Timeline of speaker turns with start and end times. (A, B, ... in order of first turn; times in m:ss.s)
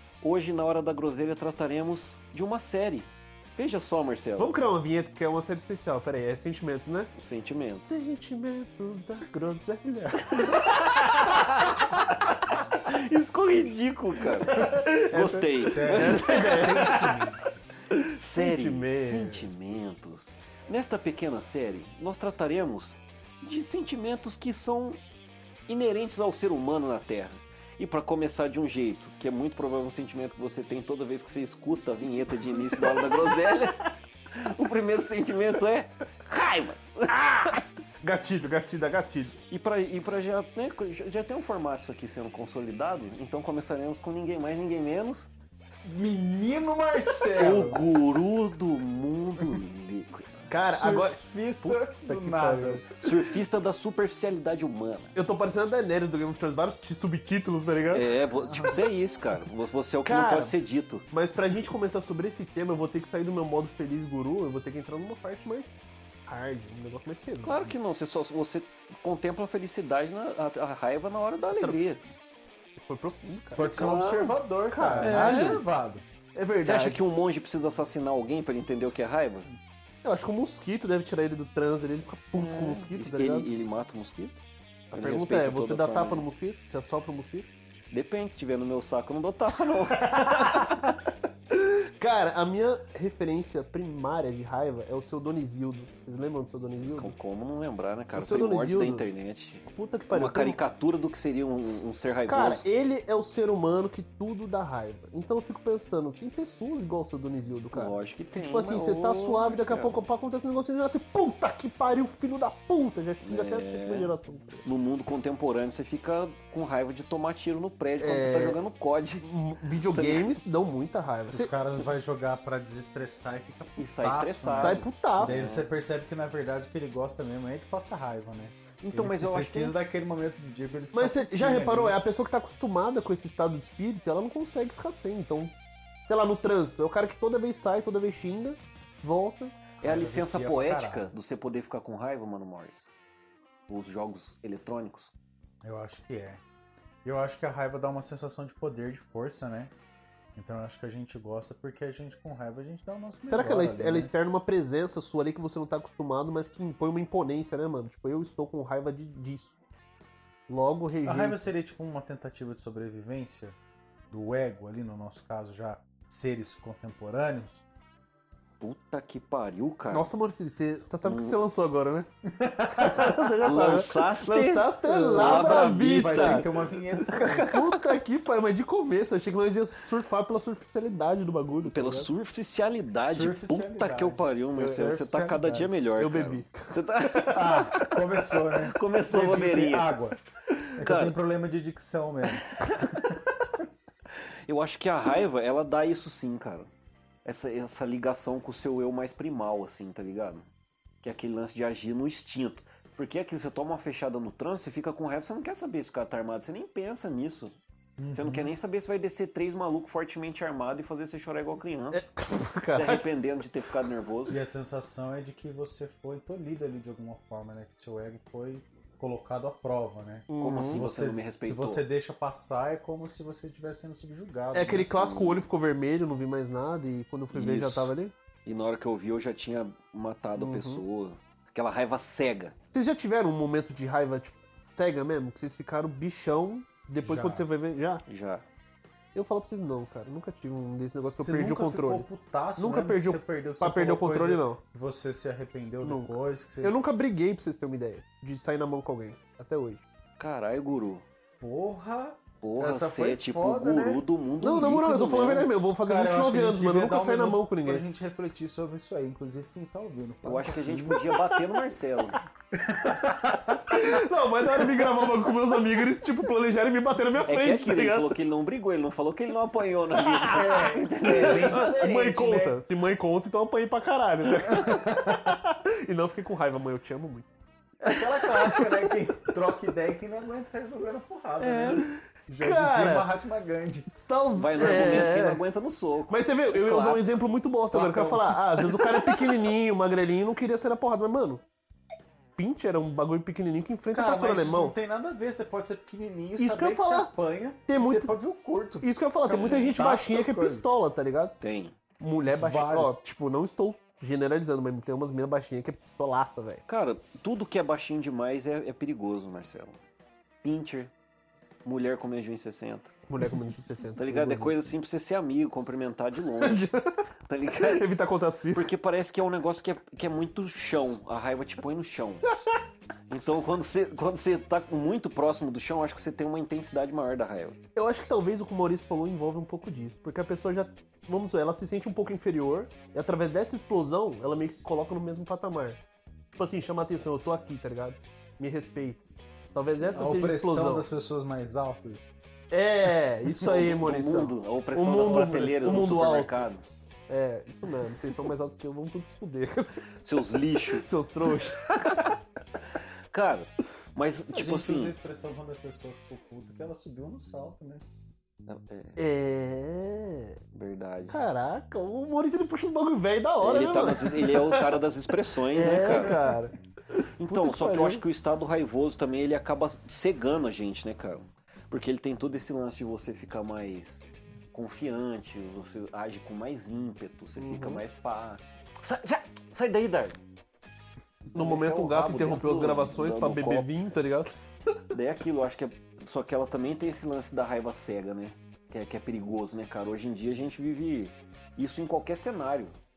0:00.2-0:04.6 A
0:04.4-0:07.1 B
0:07.2-0:07.9 A
0:07.8-0:11.9 B
0:10.5-0:11.4 A
0:12.8-0:17.1 A
0:14.5-0:17.3 B
0:15.6-0:17.9 C
0:18.1-0:25.0 A
0:18.3-0:19.5 B
0:25.7-0:37.6 A
0:32.6-0:33.7 B
0:38.0-0:39.4 B
0:39.5-0:45.3 A
0:45.8-0:47.8 C
0:47.3-0:50.5 A
0:50.5-0:53.2 B
0:50.6-0:52.9 C
0:53.0-0:55.2 A
0:55.2-0:58.1 B
0:57.9-1:01.1 A
0:58.3-0:58.9 C
1:00.0-1:00.6 B
1:01.1-1:07.6 B
1:07.4-1:12.0 A
1:11.6-1:12.0 B
1:12.8-1:13.9 B
1:13.6-1:16.0 C
1:13.6-1:14.4 A
1:14.7-1:15.6 B
1:15.0-1:15.6 A
1:16.3-1:17.0 B
1:16.6-1:19.5 A
1:20.0-1:23.5 B
1:22.4-1:26.3 A
1:24.9-1:27.5 B
1:27.9-1:30.9 A
1:30.0-1:31.0 B
1:31.5-1:37.2 B
1:36.8-1:42.6 A
1:38.2-1:39.1 B
1:39.7-1:40.6 B
1:42.3-1:54.7 B
1:47.7-1:50.0 A
1:53.2-1:54.1 A
1:54.6-1:59.3 A
1:58.0-1:58.6 B
1:59.2-2:01.9 B
1:59.9-2:00.3 A
2:01.3-2:12.0 C
2:03.8-2:05.7 A
2:04.5-2:05.5 B
2:08.8-2:09.8 A
2:10.9-2:15.6 B
2:16.1-2:19.6 B
2:19.8-2:21.1 C
2:19.8-2:22.9 A
2:23.7-2:25.1 A
2:25.6-2:26.4 C
2:27.0-2:29.7 C
2:30.4-2:34.1 C
2:33.3-2:39.6 B
2:40.5-2:41.4 B
2:41.0-2:43.6 C
2:44.1-2:47.6 C
2:48.6-2:50.1 A
2:49.9-2:52.1 B
2:51.0-2:51.4 A
2:52.3-2:53.8 C
2:52.8-2:56.5 B
2:53.1-2:58.0 A
2:54.9-2:57.4 C
2:57.1-3:02.1 B
3:01.6-3:08.0 A
3:03.0-3:05.7 C
3:06.0-3:07.8 B
3:07.3-3:10.2 C
3:08.6-3:10.0 A
3:10.8-3:13.2 C
3:10.8-3:11.2 A
3:12.6-3:13.0 A
3:14.2-3:16.7 A
3:17.2-3:20.5 A
3:21.0-3:27.5 A
3:28.0-3:28.5 C
3:28.1-3:32.1 A
3:31.9-3:33.1 B
3:32.7-3:34.4 A
3:34.3-3:45.1 C
3:40.3-3:40.8 B
3:40.4-3:41.8 A
3:44.5-3:48.1 B
3:45.1-3:45.5 A
3:47.3-3:47.9 A
3:48.5-3:52.6 A
3:50.4-3:50.8 B
3:52.7-3:58.0 B
3:57.0-3:57.5 C
3:58.1-3:58.4 A
3:59.2-4:04.6 B
4:01.2-4:06.8 C
4:05.8-4:09.8 B
4:10.2-4:11.0 A
4:11.4-4:14.0 C
4:12.4-4:15.5 A
4:14.4-4:17.8 B
4:15.8-4:21.1 C
4:20.2-4:22.2 A
4:20.9-4:21.4 B
4:22.5-4:23.9 C
4:23.7-4:28.2 B
4:24.4-4:25.1 C
4:27.2-4:31.8 A
4:30.2-4:30.6 B
4:30.2-4:32.6 C
4:31.1-4:37.3 B
4:34.4-4:35.4 C
4:37.9-4:45.1 C
4:41.4-4:41.8 A
4:41.8-4:43.1 B
4:44.1-4:45.4 B
4:44.3-4:47.1 A
4:46.1-4:51.4 B
4:47.7-4:49.5 C
4:52.4-4:54.7 B
4:53.9-5:00.6 C
4:56.4-4:57.1 B
4:57.7-4:58.2 B
4:58.8-5:01.4 B
4:59.3-4:59.8 A
5:01.4-5:01.8 A
5:02.0-5:06.6 B
5:02.3-5:03.0 C
5:06.7-5:09.8 A
5:10.4-5:10.9 A
5:11.6-5:12.9 A
5:13.1-5:14.7 B
5:14.0-5:16.7 A
5:16.4-5:17.0 B
5:17.3-5:17.9 A
5:17.6-5:18.7 B
5:18.5-5:22.3 A
5:22.3-5:22.6 B
5:23.1-5:27.6 A
5:27.8-5:35.8 B
5:36.4-5:40.9 B
5:39.8-5:40.1 A
5:39.9-5:42.1 C
5:42.5-5:46.5 B
5:43.4-5:46.7 A
5:47.1-5:49.8 B
5:50.0-5:52.1 A
5:50.7-5:52.2 B
5:53.1-5:55.0 A
5:54.4-5:57.8 C
5:58.5-5:59.0 A
5:59.0-6:00.4 B
6:00.5-6:01.2 A
6:01.1-6:04.8 B
6:03.4-6:06.2 A
6:05.5-6:08.0 B
6:05.8-6:06.5 C
6:07.2-6:20.2 A
6:17.4-6:17.8 B
6:21.3-6:21.7 C
6:21.4-6:24.3 B
6:21.4-6:23.7 A
6:24.9-6:32.8 A